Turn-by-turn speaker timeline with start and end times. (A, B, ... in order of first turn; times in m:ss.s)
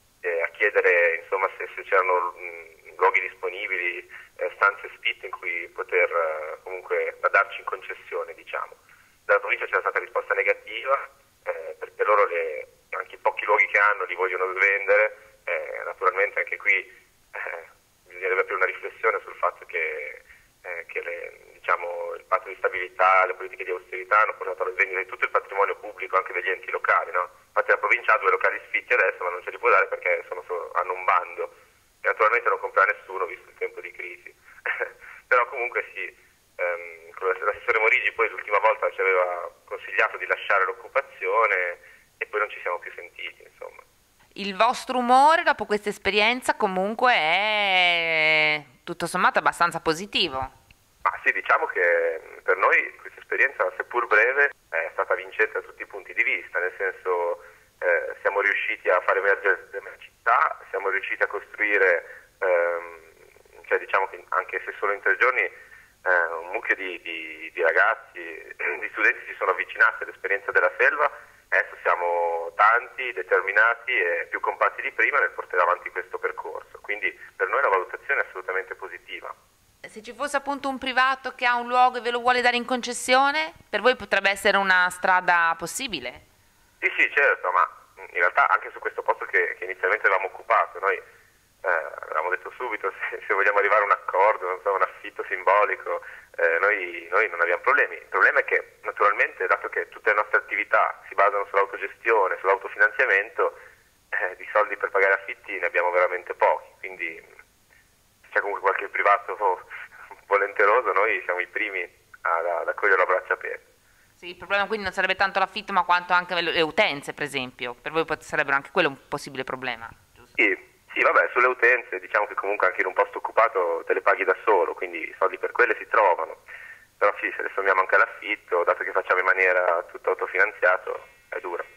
0:00.2-0:43.8 A
0:44.4-0:50.5 B
0:51.0-1:05.5 A
1:06.0-1:19.3 A
1:19.8-1:26.2 B
1:26.8-1:31.0 A
1:31.6-1:43.6 A
1:44.1-1:47.3 A
1:48.3-1:49.6 A
1:50.3-1:53.6 A
1:54.2-2:00.3 B
2:00.4-2:06.4 A
2:07.0-2:11.6 A